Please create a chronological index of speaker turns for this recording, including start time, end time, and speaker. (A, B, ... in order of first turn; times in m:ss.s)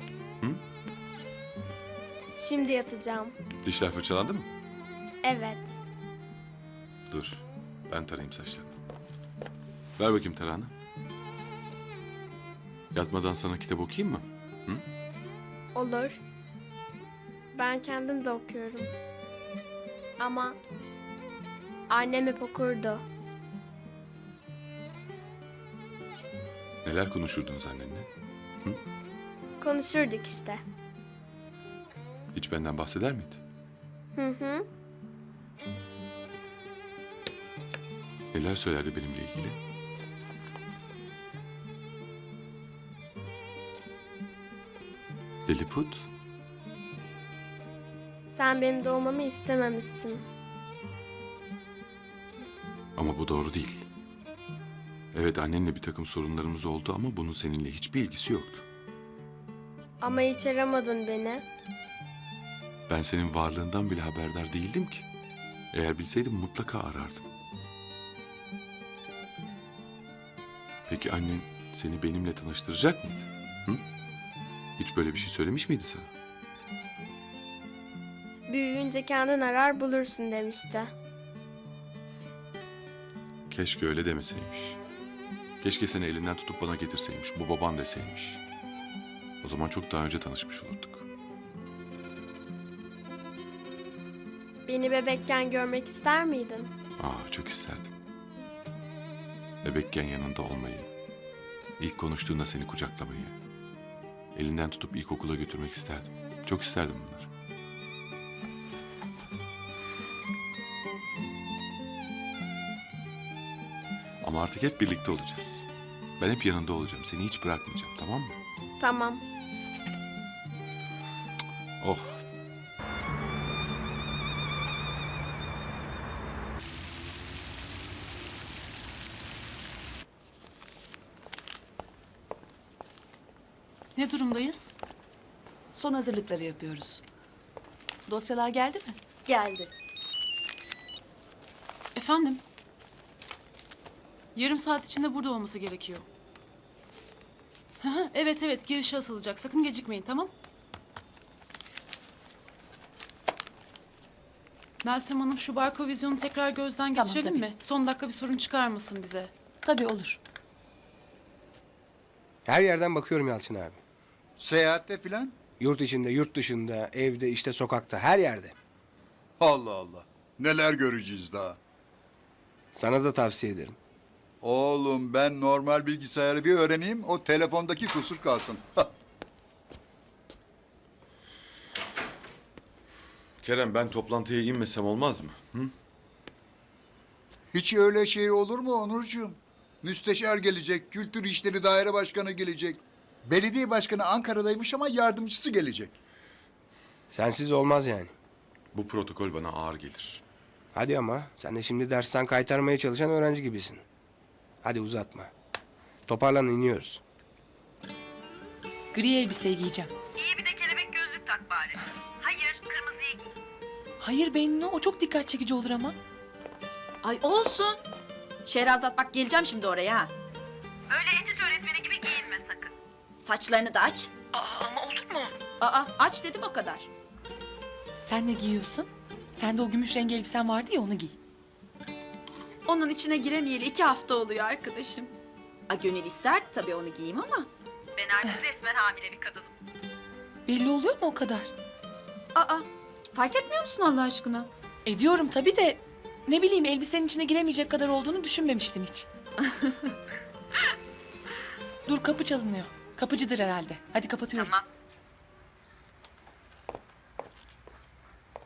0:02.4-0:03.4 A
0:03.6-0:04.5 B
0:05.2-0:05.8 A
0:07.1-0:08.8 B
0:10.0-0:10.7 B
0:12.9-0:14.8 B
0:15.8-0:16.2 A
0:17.5-0:18.9 A
0:20.2-0:20.6 A
0:21.9-0:23.0 A
0:26.8-0:28.1 B
0:29.6-0:30.6 A
0:32.3-0:33.4 B
0:34.2-0:34.6 A
0:38.3-0:39.6 B
0:45.5-0:46.1 B
0:48.3-0:50.2 A
0:53.0-0:53.9 B
0:55.1-0:58.6 B
1:00.0-1:01.4 A
1:02.9-1:05.1 B
1:05.7-1:07.3 B
1:10.9-1:13.8 B
1:14.8-1:16.1 B
1:18.5-1:20.9 A
1:23.5-1:24.8 B
1:25.6-1:28.4 B
1:29.4-1:31.0 B
1:34.7-1:36.7 A
1:37.0-1:37.9 B
1:39.6-1:40.9 B
1:41.8-1:43.4 B
1:44.4-1:47.3 B
1:54.2-1:55.7 B
1:56.2-1:58.4 B
1:58.8-1:59.2 A
2:01.8-2:02.2 B
2:14.0-2:14.7 C
2:15.8-2:16.8 D
2:18.1-2:19.0 D
2:19.3-2:19.7 E
2:22.0-2:22.4 C
2:24.4-2:26.0 C
2:27.8-2:30.3 C
2:34.8-2:39.3 C
2:37.0-2:37.5 D
2:39.6-2:40.2 D
2:42.5-2:43.8 F
2:44.4-2:45.4 G
2:45.6-2:48.6 F
2:49.4-2:51.6 G
2:52.7-2:53.8 F
2:54.4-2:58.9 G
3:03.4-3:05.7 B
3:07.5-3:16.0 G
3:17.1-3:18.1 F
3:18.7-3:20.2 B
3:20.7-3:23.8 F
3:24.6-3:25.3 F
3:26.1-3:27.0 F
3:28.9-3:29.9 D
3:30.2-3:33.2 E
3:34.0-3:36.0 D
3:37.0-3:37.8 E
3:38.5-3:40.1 E
3:40.9-3:44.1 E
3:44.3-3:45.3 D
3:45.6-3:46.9 E
3:48.0-3:51.2 D
3:52.7-3:55.1 E
3:55.7-3:59.5 E
4:00.5-4:01.5 D
4:02.4-4:04.5 E
4:04.9-4:09.1 D
4:11.9-4:14.5 D
4:14.4-4:14.6 E